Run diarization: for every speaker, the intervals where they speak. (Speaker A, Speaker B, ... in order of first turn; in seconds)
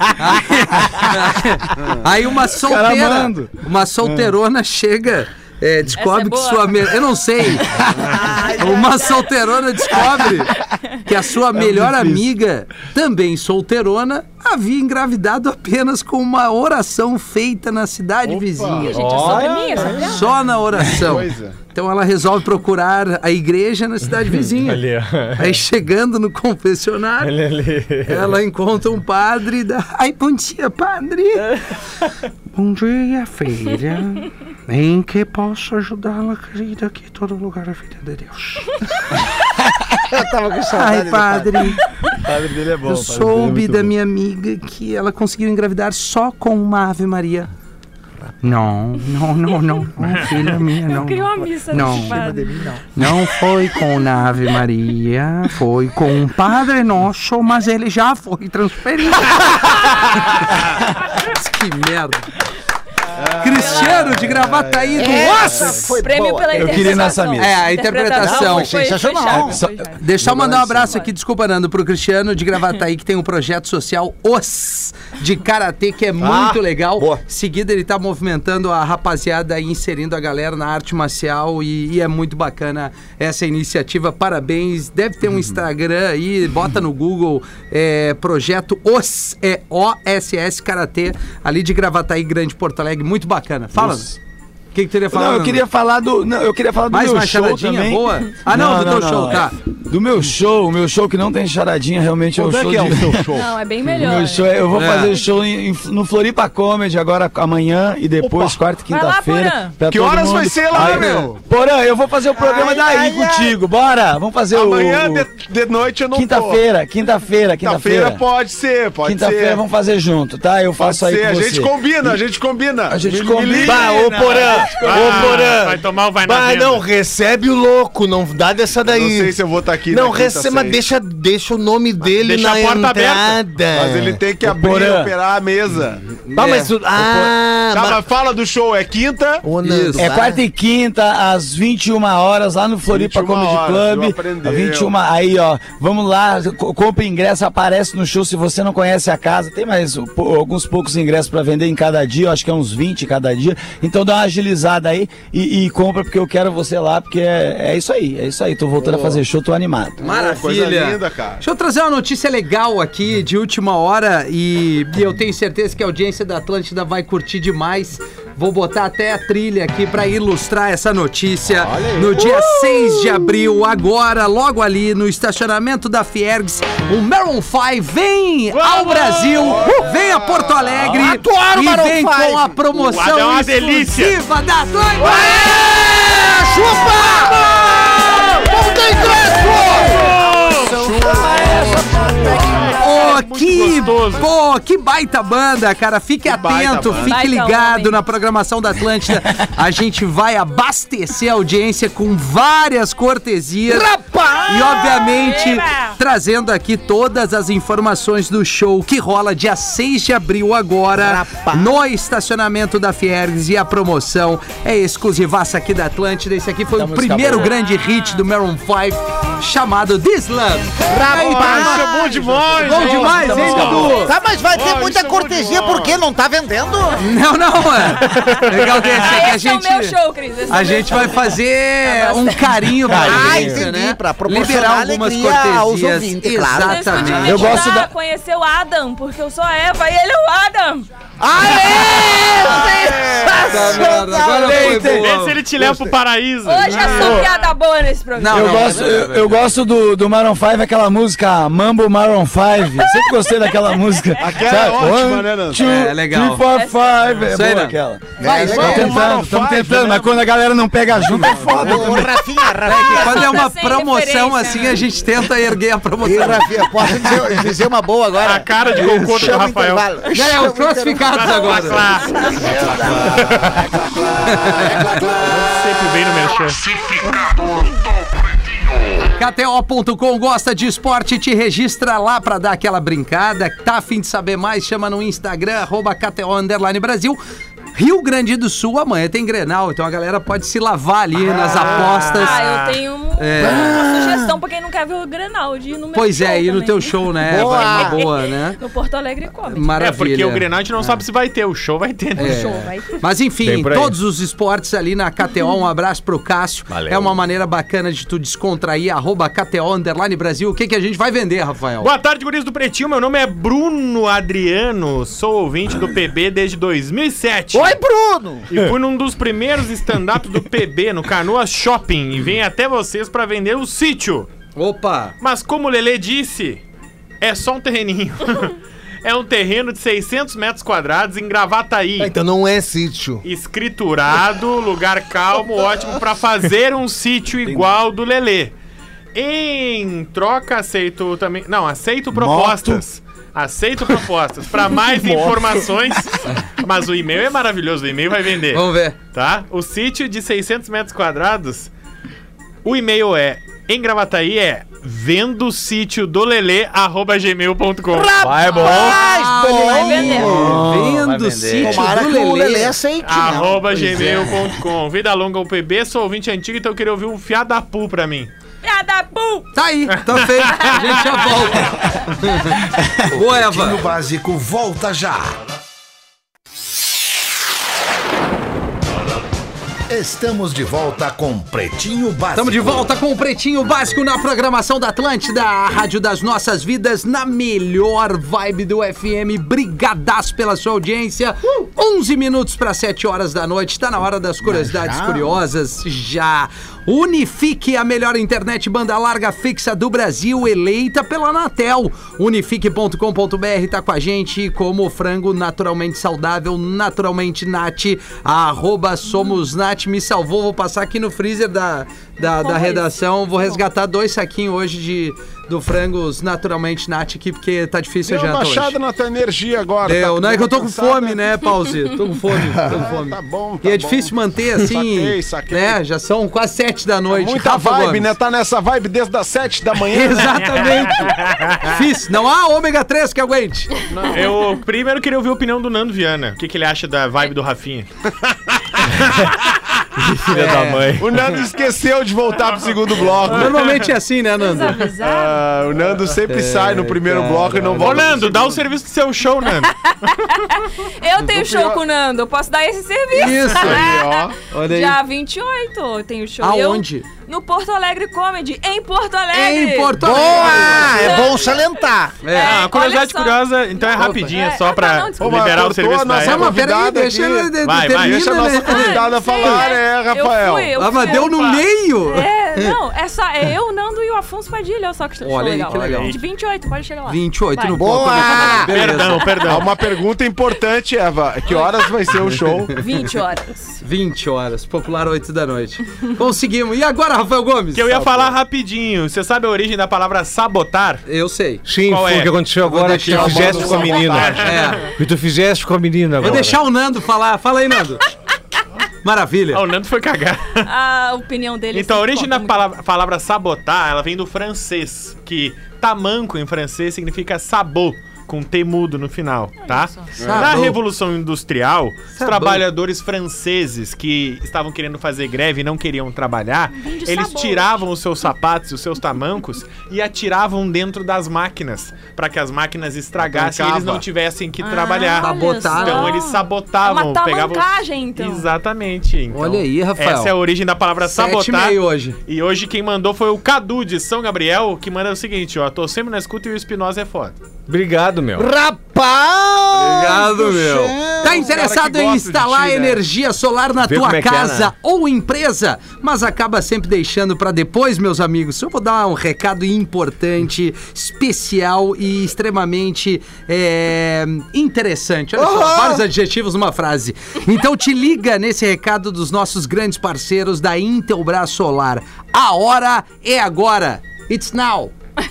Speaker A: 0.2-24.8, 25.4-27.4, 28.1-31.6, 32.5-38.7, 40.7-41.8, 42.9-47.5, 48.4-52.2, 53.0-60.5, 61.1-62.3, 63.4-65.8, 67.4-68.8, 70.0-94.2, 94.7-95.6, 96.9-99.5, 104.7-105.2, 110.8-111.3, 136.3-136.7, 139.6-140.1, 160.0-185.5, 192.8-203.9, 204.5-221.9, 222.5-224.1, 227.0-230.0, 230.5-237.6, 243.4-245.4, 248.2-249.4, 255.6-256.5, 257.3-258.9, 262.6-266.6, 268.8-269.3, 270.1-271.9, 274.2-275.0, 279.2-287.2, 287.8-292.4, 293.2-293.8, 295.9-298.6, 299.5-301.0, 302.2-311.9, 324.6-325.1, 348.5-349.0, 358.6-362.8, 363.7-364.4, 369.5-373.9, 382.3-418.8, 419.9-428.1, 429.9-433.7, 440.3-441.0, 443.3-444.8, 446.2-448.3, 453.1-453.8, 454.5-455.0, 456.4-457.1, 459.3-461.2, 462.2-462.7, 466.2-469.6, 470.8-472.8, 475.2-476.2, 477.1-479.4, 483.8-488.3, 491.1-491.6, 492.6-494.9, 496.2-498.0, 499.0-499.6, 510.2-510.8, 512.2-512.6, 523.3-524.0, 525.2-526.2, 529.3-530.4, 531.0-532.2, 540.0-565.0
Speaker B: 2.5-4.3, 11.6-12.3, 42.2-43.9, 66.5-67.6, 69.3-69.8, 95.1-103.3, 103.9-115.3, 116.1-118.2, 119.0-122.2, 122.9-125.6, 134.4-135.1, 137.0-137.3, 140.0-160.0, 216.8-217.4, 237.2-237.9, 244.2-245.1, 247.0-247.3, 248.3-262.2, 273.2-273.6, 342.1-342.8, 360.3-361.1
Speaker C: 5.9-9.3, 18.8-20.3, 50.8-52.8, 63.5-64.3, 65.1-71.1, 103.3-105.3, 108.8-109.8, 191.2-191.6, 197.0-198.0, 204.6-206.0, 221.9-223.0, 228.2-233.0, 236.6-240.9, 241.4-243.2, 246.4-248.9, 256.4-257.0, 262.8-264.9, 291.7-299.8, 302.2-303.0, 358.5-360.4, 368.6-369.5, 370.4-371.5, 409.1-409.4, 412.2-413.6, 444.3-445.4, 449.7-461.6, 462.3-465.6, 468.6-478.5, 481.5-481.9, 482.7-483.8, 500.6-502.6, 509.6-510.1, 516.7-517.8, 524.6-528.5
Speaker D: 8.2-8.7, 40.0-41.8, 51.8-52.8, 65.0-67.0, 68.2-69.7, 112.3-113.6, 172.1-173.5, 180.8-182.6, 185.0-192.7, 203.7-205.1, 211.0-211.7, 220.9-222.0, 223.0-227.1, 232.9-237.4, 241.2-244.8, 258.2-259.1, 261.4-263.4, 266.0-271.7, 272.2-273.2, 293.4-294.4, 297.2-298.0, 317.5-318.5, 357.9-360.5, 361.6-364.1, 394.4-395.4, 460.0-462.2, 477.8-478.8, 538.4-541.5, 555.4-556.1
Speaker E: 18.2-18.9, 20.9-21.6, 63.2-65.8, 102.3-103.5, 108.2-108.5, 109.9-111.4, 114.5-116.6, 117.6-119.6, 120.8-124.6, 128.8-130.8, 133.7-136.1, 137.7-139.4, 142.9-144.9, 160.0-161.4, 179.4-180.7, 190.7-192.0, 196.3-197.1, 221.1-226.0, 254.2-255.6, 258.3-260.2, 261.2-261.6, 418.1-421.4, 422.6-425.8, 427.1-430.9, 433.9-434.3, 440.9-443.7, 445.0-448.6, 451.2-451.8, 453.4-454.4, 465.2-470.8, 479.4-482.8, 493.0-494.3, 510.2-510.5, 539.8-540.1, 541.2-543.0
Speaker F: 18.9-20.1, 24.5-25.6, 27.2-28.4, 76.2-77.2, 123.6-129.4, 129.9-134.2, 136.3-138.0, 139.4-140.4, 233.0-233.6, 303.4-304.0, 306.7-307.2, 332.0-333.2, 358.2-359.0, 360.2-361.9, 439.0-439.3, 440.0-441.2, 491.7-496.6, 537.7-538.5, 540.2-540.9, 543.8-544.7
Speaker G: 124.8-126.8, 132.0-133.4, 178.5-179.5, 182.7-184.2, 189.9-190.8, 192.4-194.3, 244.6-247.2, 268.2-269.9, 271.1-273.7, 274.6-276.7, 291.3-292.8, 299.8-302.7, 311.8-317.8, 318.5-324.3, 325.2-326.6, 327.2-332.1, 333.2-338.5, 339.1-351.7, 352.6-358.2, 363.0-368.3, 370.1-370.9, 430.4-431.7, 434.1-437.9, 438.8-439.4, 443.4-443.9, 447.8-450.1, 462.4-466.6, 467.6-468.2, 471.0-471.6, 478.6-479.8, 487.7-491.0, 491.9-492.3, 492.9-494.9, 499.5-500.7, 501.7-537.4
Speaker H: 373.3-375.4, 379.9-382.9